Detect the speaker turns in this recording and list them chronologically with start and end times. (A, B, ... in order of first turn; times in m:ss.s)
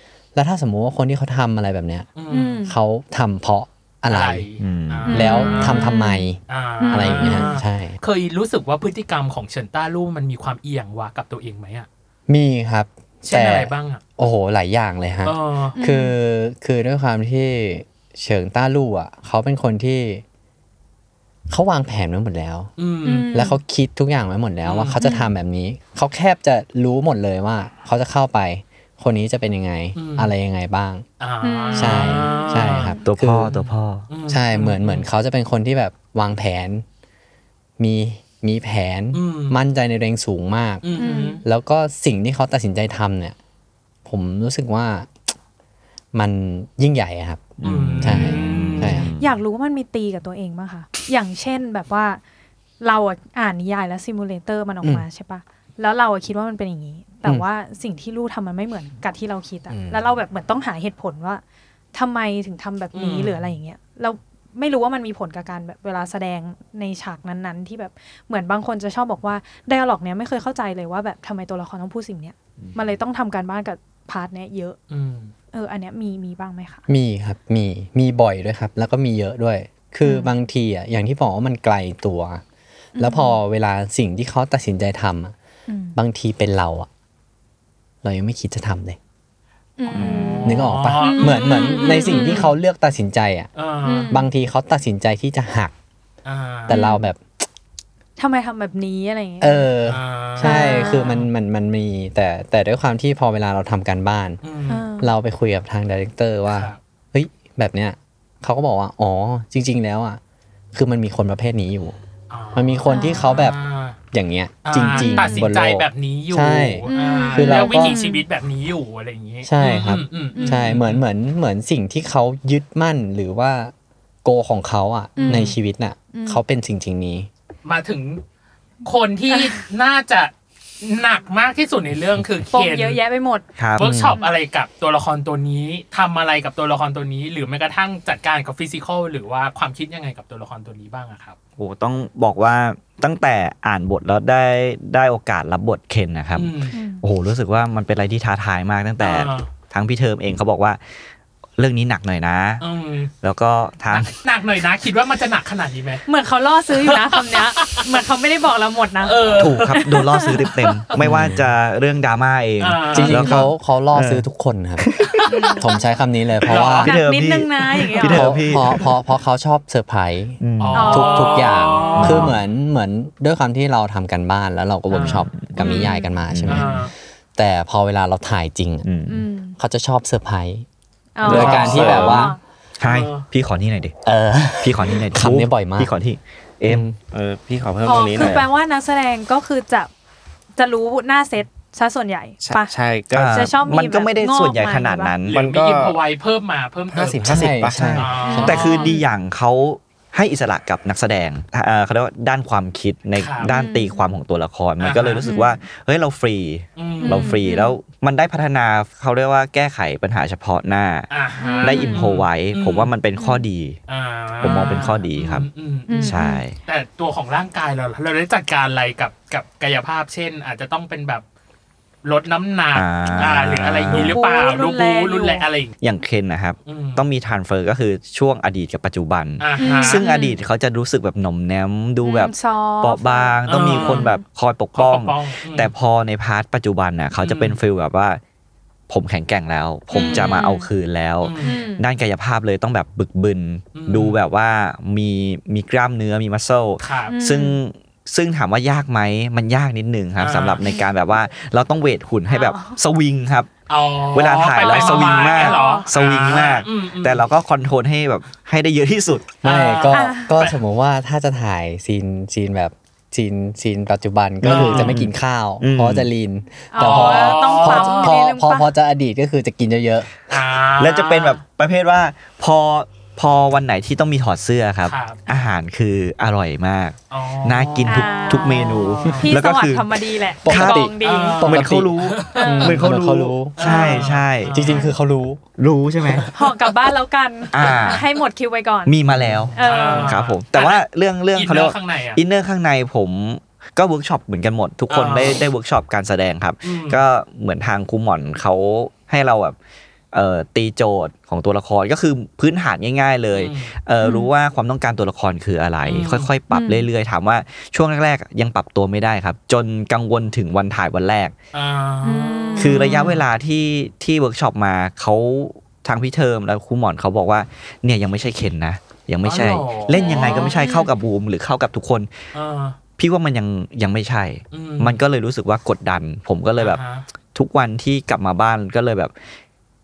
0:00.4-0:02.1 A
0:02.2-0:02.6 B
0:02.3-0:02.7 C
0:02.6-0:04.5 A
0:04.1-0:06.0 B
0:04.6-0:05.1 D
0:05.1-0:06.2 C
0:05.1-0:08.0 A
0:06.5-0:11.9 B
0:06.8-0:07.5 C
0:12.3-0:20.2 A
0:13.2-0:14.0 B
0:15.2-0:15.8 B
0:15.8-0:16.2 C
0:21.5-0:22.7 A
0:22.8-0:23.3 B
0:23.0-0:23.6 C
0:23.3-0:31.0 A
0:24.6-0:25.0 B
0:25.0-0:25.3 C
0:30.0-0:30.3 B
0:31.2-0:33.0 B
0:31.4-0:33.0 C
0:31.7-0:33.5 A
0:33.0-0:34.0 D
0:33.6-0:35.0 B
0:34.3-0:36.8 A
0:37.8-0:40.8 A
0:39.1-0:39.5 B
0:40.8-0:41.4 B
0:41.0-0:41.4 C
0:41.4-0:43.4 A
0:44.0-0:45.2 A
0:46.1-0:49.1 A
0:47.6-0:49.4 D
0:47.6-0:49.1 B
0:49.2-0:52.2 C
0:52.8-1:01.4 C
1:01.9-1:14.8 C
1:02.9-1:03.5 B
1:14.9-1:15.3 B
1:15.5-1:16.8 C
1:16.9-1:22.4 A
1:20.0-1:20.3 C
1:23.0-1:23.4 C
1:23.0-1:25.4 A
1:25.7-1:26.0 C
1:26.0-1:26.9 A
1:28.0-1:29.0 A
1:29.8-1:32.5 C
1:29.9-1:30.4 D
1:29.9-1:32.5 B
1:30.4-1:33.5 A
1:33.6-1:34.1 B
1:33.8-1:34.2 C
1:34.1-1:35.7 A
1:36.2-1:36.8 B
1:36.6-1:37.2 A
1:36.7-1:37.0 C
1:38.2-1:39.7 C
1:39.4-1:44.4 A
1:39.9-1:41.2 B
1:40.4-1:41.2 C
1:44.4-1:44.8 B
1:44.7-1:45.1 C
1:45.0-1:50.2 A
1:46.5-1:46.8 B
1:50.7-1:52.0 A
1:52.3-1:54.0 B
1:52.5-1:53.6 A
1:52.9-1:53.4 C
1:54.1-1:58.0 A
1:54.6-2:01.0 B
1:54.8-1:55.5 C
1:56.9-1:58.2 C
1:59.4-2:03.7 A
2:00.3-2:00.8 C
2:04.2-2:07.3 A
2:05.2-2:05.6 C
2:05.2-2:05.5 B
2:06.1-2:06.4 C
2:07.6-2:08.2 B
2:08.8-2:13.0 B
2:09.3-2:09.6 C
2:12.5-2:13.4 C
2:13.6-2:13.8 D
2:13.8-2:21.4 B
2:13.8-2:14.2 A
2:21.6-2:30.8 D
2:26.3-2:26.8 B
2:26.7-2:27.0 C
2:29.0-2:29.5 B
2:31.6-2:32.6 D
2:32.6-2:33.1 B
2:33.2-2:34.1 D
2:33.9-2:36.0 B
2:36.0-2:40.4 C
2:36.7-2:37.9 B
2:39.0-2:40.0 B
2:39.4-2:44.2 D
2:40.7-2:41.0 B
2:41.0-2:41.4 A
2:42.6-2:43.4 B
2:42.9-2:44.9 A
2:44.8-2:45.3 D
2:45.3-2:45.8 C
2:45.6-2:46.9 A
2:46.4-2:47.0 B
2:46.8-2:48.8 D
2:46.8-2:48.3 C
2:48.0-2:58.9 A
2:50.4-2:51.0 D
2:50.6-2:52.3 B
2:50.7-2:52.1 C
2:52.0-2:52.3 D
2:54.9-2:55.3 B
2:55.0-2:56.6 D
2:55.6-2:56.1 C
2:56.5-2:56.9 B
2:58.8-2:59.2 D
2:59.1-2:59.6 C
2:59.6-3:00.6 A
3:01.2-3:02.4 C
3:01.2-3:02.4 A
3:01.2-3:02.2 E
3:01.2-3:02.2 D
3:02.8-3:04.0 D
3:02.8-3:03.2 B
3:04.0-3:05.9 A
3:04.6-3:06.8 D
3:06.6-3:07.0 A
3:07.1-3:08.5 E
3:07.8-3:09.9 C
3:10.6-3:12.7 C
3:12.4-3:13.5 E
3:13.1-3:15.4 D
3:13.3-3:15.1 C
3:15.3-3:18.9 B
3:15.3-3:16.0 E
3:16.9-3:18.3 E
3:17.2-3:18.6 A
3:17.8-3:31.1 D
3:18.2-3:19.0 C
3:23.2-3:23.5 B
3:23.4-3:24.1 C
3:24.8-3:25.3 B
3:25.2-3:25.6 C
3:26.8-3:27.4 B
3:27.0-3:27.8 C
3:31.1-3:32.9 B
3:31.4-3:32.0 C
3:31.6-3:33.8 D
3:33.2-3:33.4 C
3:33.9-3:41.2 B
3:34.4-3:35.5 D
3:35.9-3:36.4 C
3:36.0-3:36.6 D
3:42.0-3:45.7 B
3:42.8-3:44.2 D
3:43.9-3:45.5 C
3:45.8-3:58.2 D
3:46.6-3:47.0 B
3:49.4-3:50.0 B
3:49.6-3:50.4 C
3:52.0-3:54.2 C
3:53.5-3:54.1 B
3:54.8-3:55.7 B
3:57.2-3:57.6 B
3:58.9-4:13.6 D
3:59.9-4:00.7 C
3:59.9-4:00.4 B
4:01.2-4:01.7 B
4:01.4-4:01.8 C
4:03.7-4:04.2 B
4:06.8-4:07.2 B
4:07.1-4:07.6 C
4:10.2-4:10.6 B
4:12.3-4:12.8 C
4:13.7-4:17.2 B
4:14.1-4:19.3 D
4:14.6-4:15.9 C
4:19.4-4:20.5 B
4:19.4-4:30.1 A
4:19.9-4:20.3 C
4:24.4-4:26.1 D
4:24.4-4:25.0 B
4:26.7-4:28.7 C
4:26.8-4:28.1 B
4:30.3-4:31.4 B
4:30.8-4:40.9 D
4:34.8-4:35.2 B
4:37.1-4:39.3 B
4:37.9-4:41.4 C
4:40.4-4:43.9 A
4:41.0-4:42.8 B
4:41.4-4:44.5 D
4:42.4-4:42.7 C
4:43.6-4:44.9 B
4:43.7-4:44.0 C
4:44.5-4:45.4 A
4:44.6-4:44.9 C
4:45.6-4:46.3 D
4:46.3-4:49.0 C
4:47.5-4:48.0 D
4:47.6-4:48.0 B
4:48.9-4:59.6 D
4:49.1-4:49.5 A
4:49.5-4:50.1 C
4:49.6-4:50.8 B
4:51.4-4:52.2 B
4:54.9-4:55.4 B
4:56.6-4:57.0 B
5:00.1-5:11.3 D
5:03.3-5:03.7 B
5:04.0-5:04.3 C
5:05.8-5:06.3 B
5:06.5-5:06.9 C
5:11.5-5:13.2 B
5:12.0-5:13.1 C
5:12.6-5:22.1 D
5:19.2-5:20.6 B
5:19.9-5:20.9 C
5:22.3-5:22.8 B
5:23.0-5:26.8 D
5:24.5-5:25.0 B
5:26.6-5:27.0 B
5:27.3-5:29.1 D